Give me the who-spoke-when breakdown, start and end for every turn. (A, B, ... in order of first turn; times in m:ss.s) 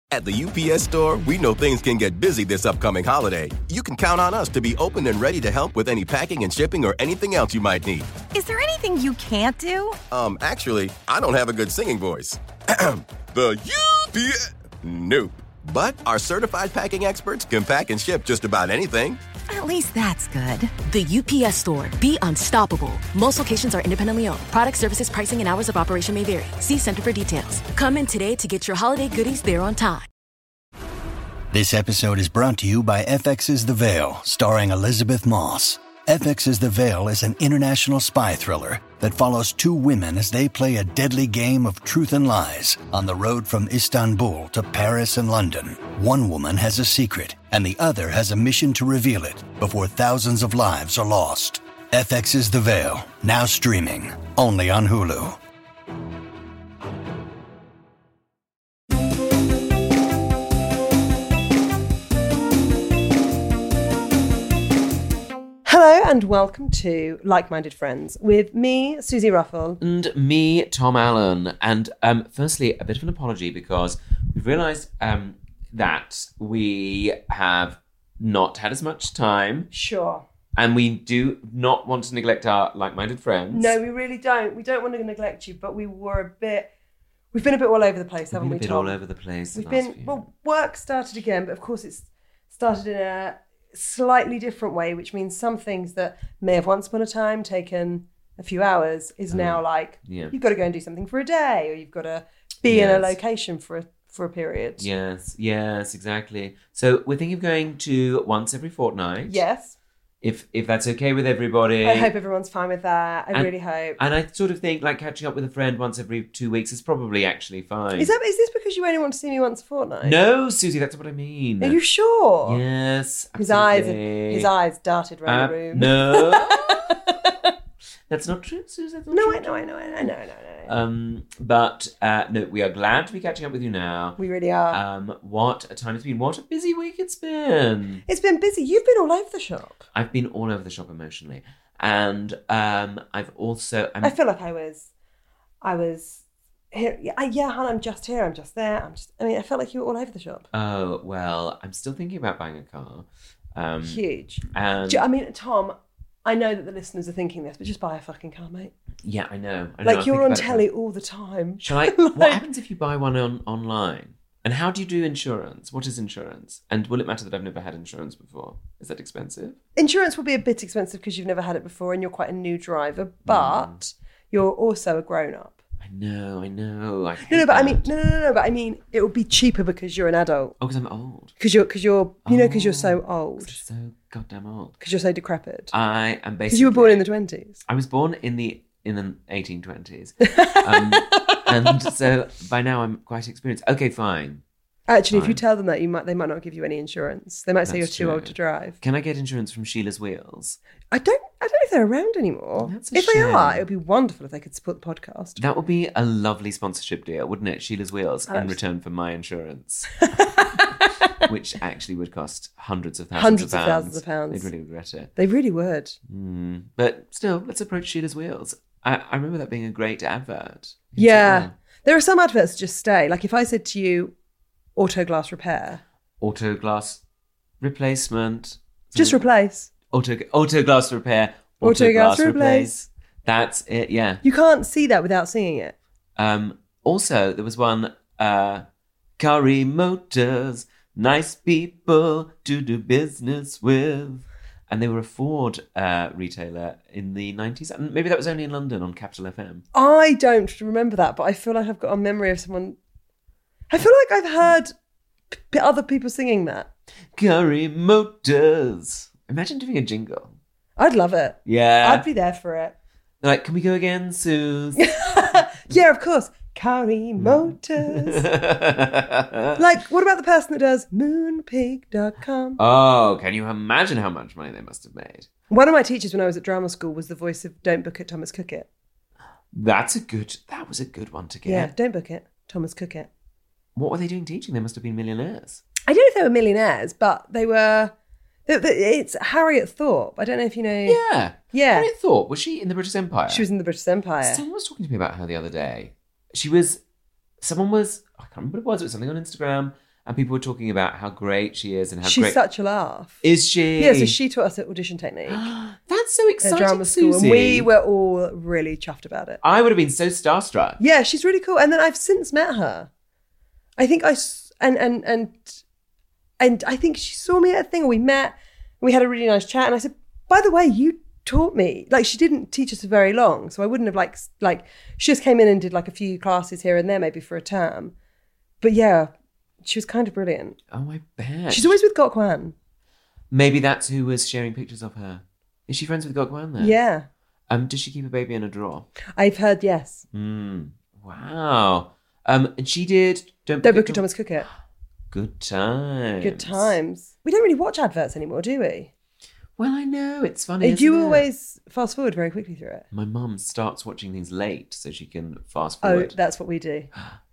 0:00.1-0:08.1 A
0:08.3-0:10.0 B
0:10.1-0:19.2 A
0:19.5-0:20.7 B
0:20.8-0:30.1 C
0:31.5-0:55.4 D
1:05.7-1:09.8 E
1:09.8-1:19.7 F
1:19.7-1:20.2 E
1:20.6-1:23.8 F
1:23.5-1:26.7 E
1:27.3-1:29.0 E
1:28.3-1:30.2 F
1:29.5-1:44.9 E
1:39.3-1:40.3 F
1:42.7-1:43.2 F
1:44.8-1:49.4 F
1:49.2-1:49.8 E
1:50.2-1:52.1 F
1:51.8-1:54.0 E
1:53.3-1:58.1 F
1:58.0-2:00.2 E
2:00.0-2:01.8 F
2:01.6-2:02.6 E
2:02.4-2:04.5 F
2:03.4-2:07.5 E
2:05.3-2:07.2 F
2:08.1-2:10.1 F
2:09.1-2:10.7 E
2:10.7-2:14.2 F
2:14.2-2:14.8 E
2:14.7-2:18.0 F
2:18.1-2:19.8 E
2:19.9-2:24.2 F
2:24.0-2:24.9 E
2:25.6-2:30.5 E
2:30.5-2:35.0 F
2:33.8-2:38.7 E
2:39.0-2:40.7 F
2:39.8-2:42.4 E
2:41.6-2:49.6 F
2:49.8-2:55.6 E
2:53.3-2:53.8 F
2:55.8-2:57.9 F
2:57.2-3:00.6 E
3:00.6-3:01.3 F
3:01.4-3:03.6 E
3:02.2-3:04.8 F
3:04.8-3:05.7 E
3:05.7-3:07.1 F
3:06.5-3:07.6 E
3:07.6-3:14.4 F
3:10.3-3:11.7 E
3:14.9-3:18.8 E
3:15.1-3:15.4 F
3:17.7-3:20.6 F
3:20.9-3:25.4 E
3:22.6-3:23.6 F
3:25.4-3:30.6 F
3:28.3-3:28.6 E
3:30.0-3:31.2 E
3:31.1-3:35.1 F
3:33.2-3:34.5 E
3:35.2-3:36.0 E
3:36.1-3:41.5 F
3:41.0-3:44.1 E
3:44.8-3:45.8 E
3:46.2-3:47.0 F
3:47.6-3:49.2 F
3:49.0-3:49.7 E
3:49.9-3:54.2 F
3:51.6-3:52.7 E
3:54.2-3:55.7 E
3:56.2-3:58.6 F
3:59.2-4:09.6 F
4:09.7-4:12.8 E
4:13.7-4:14.7 E
4:15.3-4:16.7 E
4:17.2-4:20.4 F
4:20.8-4:22.8 E
4:21.5-4:22.0 F
4:23.2-4:24.9 F
4:24.8-4:28.2 E
4:27.2-4:29.6 F
4:29.6-4:32.6 E
4:32.6-4:35.3 F
4:35.5-4:38.7 E
4:39.5-4:41.7 F
4:41.5-4:43.1 E
4:43.8-4:45.6 F
4:45.9-4:47.9 E
4:48.5-4:51.0 E
4:50.9-4:53.5 F
4:51.5-4:51.9 E
4:53.3-4:54.4 E
4:54.2-4:56.8 F
4:57.4-5:02.4 F
5:02.0-5:03.2 E
5:03.2-5:04.2 F
5:03.8-5:05.5 E
5:05.3-5:07.7 F
5:06.4-5:09.4 E
5:09.4-5:10.8 F
5:10.8-5:12.9 E
5:13.8-5:15.6 E
5:16.4-5:27.9 E
5:28.6-5:29.1 E
5:29.6-5:30.6 E
5:30.7-5:31.8 F
5:31.5-5:32.5 E
5:33.3-5:36.8 F
5:36.6-5:37.1 E
5:37.5-5:38.9 F
5:39.1-5:40.0 E
5:40.1-5:44.0 F
5:43.6-5:44.5 E
5:45.1-5:46.7 F
5:46.2-5:48.9 E
5:49.6-5:51.2 F
5:50.6-5:52.9 E
5:52.9-5:56.1 F
5:55.8-5:56.9 E